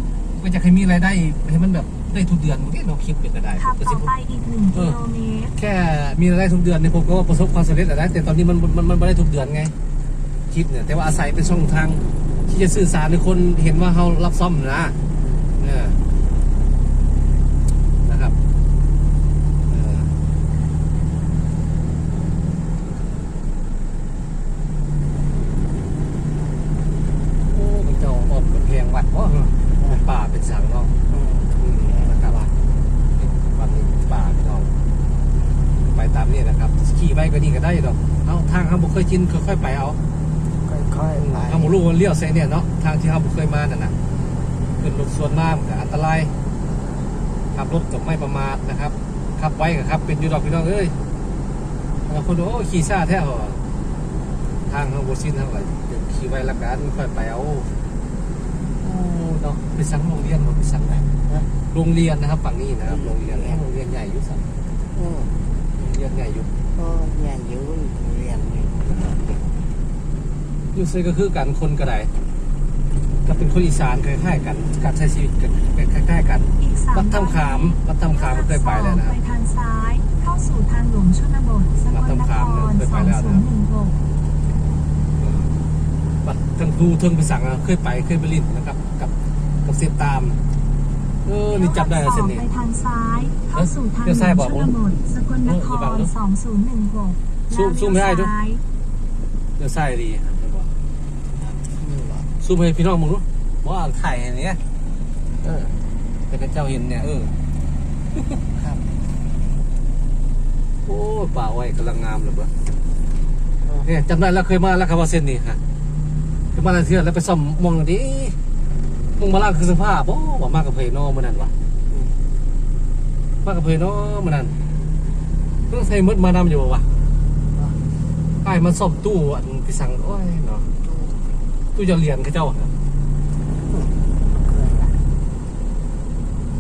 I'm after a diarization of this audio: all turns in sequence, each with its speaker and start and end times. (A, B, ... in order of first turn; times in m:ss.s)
0:00.4-0:04.1 A
0:03.6-0:05.5 B
0:04.7-0:05.0 A
0:05.6-0:09.7 A
0:10.5-0:15.0 A
0:15.2-0:15.5 C
0:15.6-0:16.0 A
0:18.0-0:18.4 A
0:19.7-0:20.1 A
0:27.5-0:30.9 A
0:31.1-0:32.4 C
0:31.6-0:32.5 A
0:33.2-0:34.7 A
0:35.8-0:40.0 A
0:40.6-0:41.8 C
0:41.2-0:44.0 A
0:44.8-0:46.3 A
0:47.5-0:51.0 A
0:52.1-0:53.6 A
0:54.7-0:57.7 A
0:58.8-1:01.1 A
1:01.7-1:04.5 A
1:02.9-1:03.6 C
1:05.0-1:05.4 C
1:05.8-1:06.5 A
1:06.8-1:09.4 C
1:10.7-1:12.1 A
1:13.2-1:19.2 A
1:16.6-1:24.0 B
1:21.9-1:23.5 A
1:25.2-1:25.5 A
1:26.2-1:29.1 A
1:29.6-1:30.4 A
1:31.3-1:32.5 A
1:31.5-1:38.6 B
1:33.5-1:34.8 A
1:35.4-1:36.1 A
1:37.5-1:38.3 A
1:39.6-1:40.7 A
1:41.7-1:42.3 C
1:42.4-1:44.6 A
1:45.4-1:45.8 C
1:46.3-1:47.4 A
1:48.6-1:48.9 C
1:50.8-1:52.5 A
1:53.8-1:55.6 A
1:56.5-1:58.4 A
1:59.2-2:01.5 A
2:01.9-2:02.3 C
2:03.4-2:04.6 A
2:05.7-2:06.9 A
2:07.5-2:07.8 C
2:08.4-2:10.7 A
2:10.8-2:11.4 C
2:11.8-2:12.7 A
2:13.7-2:15.0 C